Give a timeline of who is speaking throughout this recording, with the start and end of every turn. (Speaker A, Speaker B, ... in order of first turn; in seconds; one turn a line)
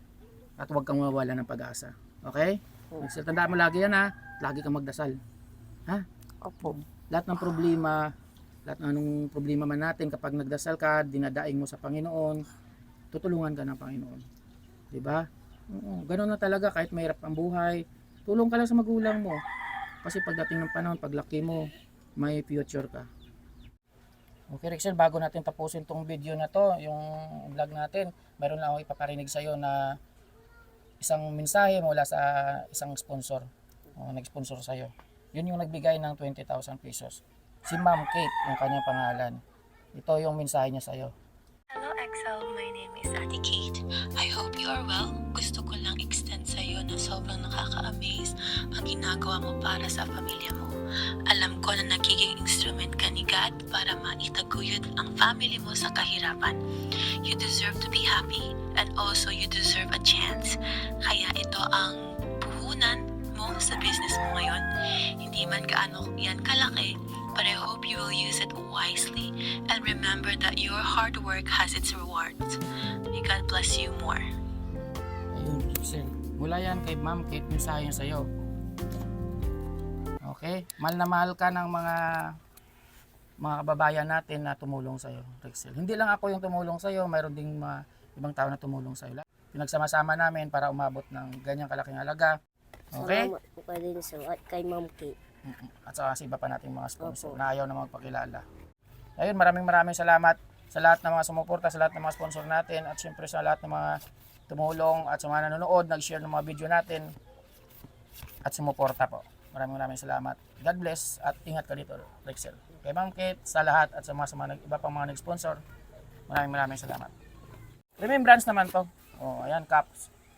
Speaker A: 0.6-5.2
Speaker B: 6.4-6.8
Speaker A: 6.6-8.0
Speaker A: 8.7-12.4
Speaker A: 13.1-14.2
Speaker A: 14.9-19.4
Speaker A: 20.0-23.1
Speaker A: 24.5-30.0
Speaker A: 31.0-39.4
Speaker A: 39.9-41.1
Speaker C: 41.7-50.7
Speaker C: 51.3-56.6
Speaker C: 57.2-64.6
Speaker C: 65.2-72.6
Speaker C: 73.1-74.2
Speaker A: 75.3-78.2
Speaker A: 80.2-82.3
Speaker A: 83.4-92.3
Speaker A: 92.9-93.3
Speaker B: 93.0-95.1
Speaker A: 95.5-98.4
Speaker B: 97.0-97.4
Speaker A: 99.2-107.1
Speaker A: 108.4-115.6
Speaker A: 116.3-117.1
Speaker A: 118.0-120.1